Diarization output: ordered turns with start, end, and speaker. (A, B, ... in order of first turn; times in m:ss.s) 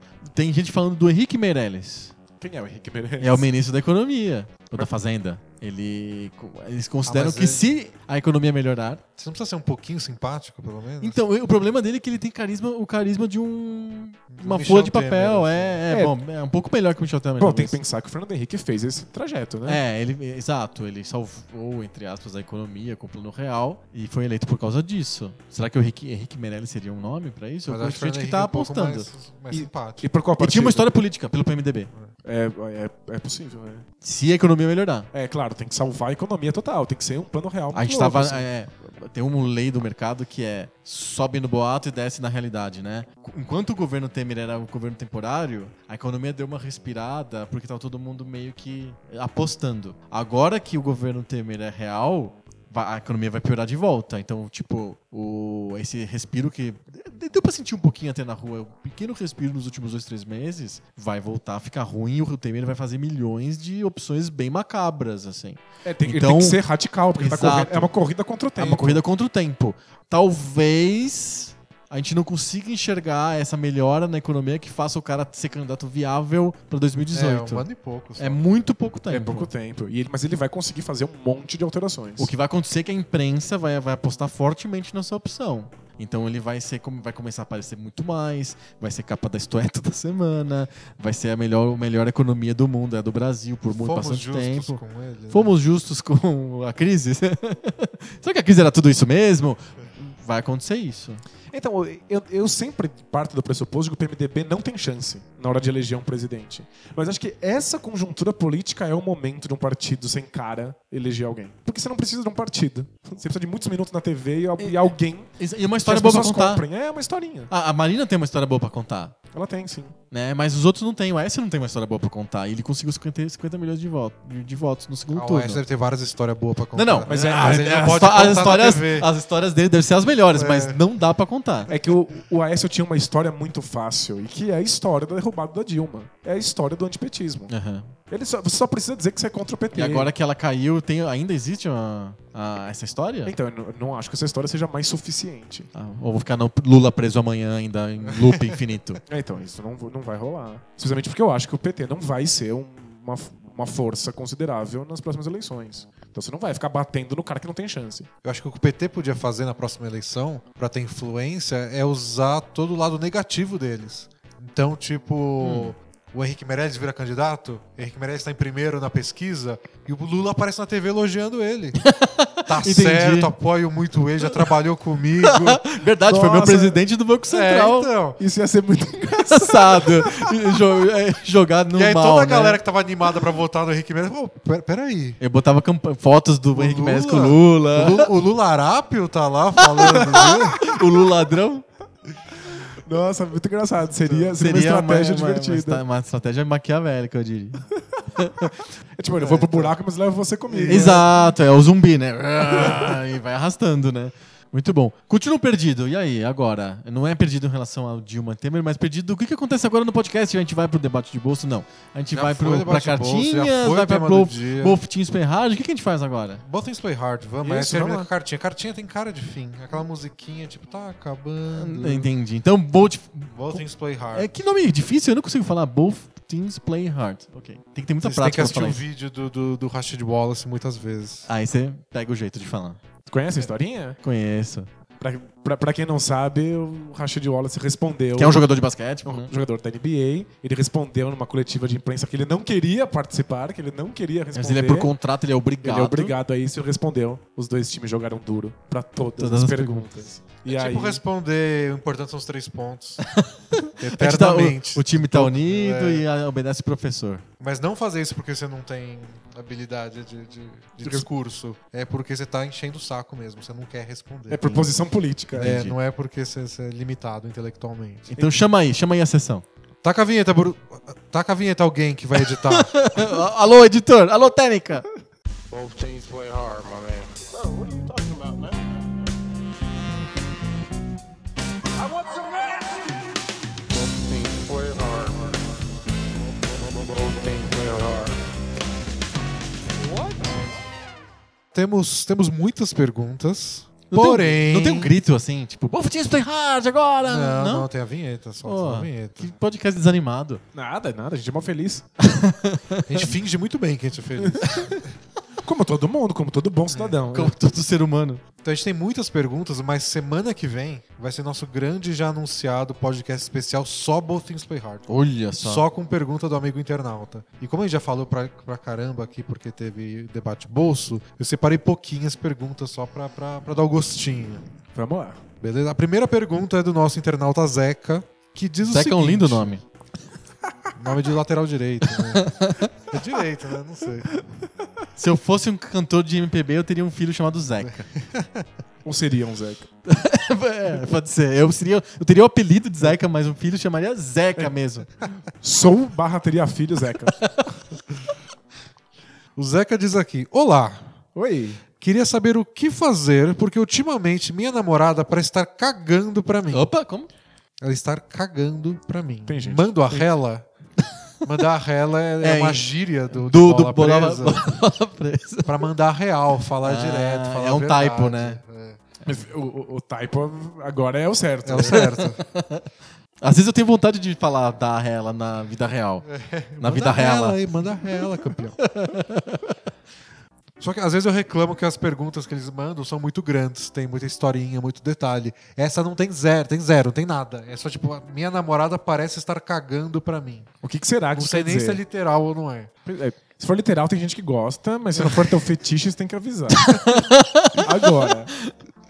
0:00.2-0:02.1 A
0:02.4-0:03.5 B
0:03.2-0:09.0 A
0:07.0-0:07.7 C
0:09.2-0:11.2 C
0:11.0-0:17.8 A
0:14.3-0:15.8 C
0:15.9-0:16.1 B
0:17.4-0:19.8 B
0:19.6-0:29.1 A
0:27.7-0:30.0 C
0:29.5-0:31.0 B
0:30.4-0:31.9 A
0:32.2-0:33.8 B
0:34.0-0:35.1 A
0:35.1-0:38.4 B
0:37.7-1:06.6 A
1:05.8-1:09.0 B
1:07.2-1:07.9 A
1:08.6-1:17.6 A
1:17.1-1:18.4 C
1:18.2-1:19.5 A
1:19.1-1:22.3 B
1:22.2-1:34.8 A
1:33.7-1:35.5 C
1:35.3-1:41.2 A
1:41.5-1:55.3 B
1:54.6-1:56.6 A
1:55.8-1:57.5 B
1:57.5-1:59.2 A
1:59.3-1:59.9 B
2:00.1-2:05.6 A
2:05.1-2:09.1 C
2:06.7-2:11.7 A
2:07.1-2:08.0 B
2:10.3-2:10.8 C
2:11.7-2:17.5 B
2:17.5-2:17.9 A
2:18.1-2:20.1 B
2:19.7-2:23.3 A
2:23.2-2:25.7 B
2:25.7-2:29.0 A
2:29.1-2:38.1 B
2:38.2-2:51.8 C
2:45.4-2:45.7 A
2:51.8-2:53.3 A
2:52.4-2:55.6 C
2:55.2-2:57.9 A
2:56.0-2:56.8 B
2:57.3-2:58.2 C
2:58.2-3:00.3 B
2:59.3-3:02.6 A
3:01.7-3:05.2 C
3:05.2-3:08.1 A
3:06.5-3:10.6 C
3:09.7-3:11.6 A
3:12.7-3:15.8 B
3:14.0-3:14.4 C
3:14.4-3:17.6 A
3:18.2-3:18.5 A
3:19.0-3:21.1 B
3:20.5-3:21.1 C
3:20.7-3:36.4 A
3:32.1-3:34.8 C
3:36.4-3:42.1 C
3:37.4-3:38.1 B
3:41.5-3:48.8 A
3:43.3-3:44.3 C
3:48.0-3:51.3 C
3:51.3-3:52.8 A
3:53.1-3:54.0 B
3:54.0-3:54.7 A
3:55.0-3:58.4 B
3:58.2-3:59.3 A
3:59.0-4:04.9 B
4:04.3-4:06.1 A
4:05.6-4:11.0 B
4:09.2-4:09.9 A
4:10.5-4:13.0 C
4:13.1-4:17.2 A
4:13.8-4:16.0 C
4:17.4-4:24.7 C
4:20.8-4:21.1 B
4:24.3-4:25.6 B
4:25.4-4:25.8 A
4:25.4-4:28.1 C
4:28.1-4:28.4 B
4:28.1-4:29.4 A
4:29.8-4:33.1 C
4:32.2-4:34.8 A
4:35.5-4:38.9 D
4:41.8-4:42.8 D
4:43.7-4:48.2 D
4:49.8-4:50.4 D
4:51.5-4:54.9 C
4:53.9-4:57.7 A
4:57.0-4:59.3 C
4:58.4-5:00.4 A
5:00.5-5:01.8 B
5:02.0-5:03.1 A
5:02.9-5:04.9 C
5:04.2-5:04.5 B
5:05.4-5:07.3 B
5:06.7-5:07.0 C
5:07.1-5:08.2 A
5:08.4-5:14.8 C
5:14.9-5:15.6 A
5:15.4-5:24.4 C
5:24.7-5:25.2 B
5:25.4-5:29.5 C
5:28.6-5:29.6 A
5:30.8-5:34.1 C
5:32.1-5:32.7 A
5:35.0-5:37.9 A
5:38.0-5:38.3 C
5:38.8-5:39.7 B
5:39.8-5:44.9 A
5:45.4-5:47.2 B
5:49.4-5:50.9 C
5:51.1-5:51.6 B
5:51.8-5:56.7 C
5:56.5-5:57.1 A
5:57.6-6:00.4 C
5:59.3-6:00.1 B
6:01.2-6:04.4 C
6:02.2-6:05.6 A
6:05.4-6:08.8 C
6:06.6-6:08.4 A
6:09.0-6:11.9 B
6:11.4-6:12.2 C
6:11.7-6:12.7 A
6:13.2-6:16.0 A
6:16.0-6:18.6 C
6:16.6-6:18.0 A
6:18.6-6:19.4 A
6:20.6-6:30.5 C
6:30.6-6:31.8 B
6:31.1-6:32.7 C
6:32.8-6:36.8 B
6:36.5-6:38.5 A
6:37.6-6:38.3 B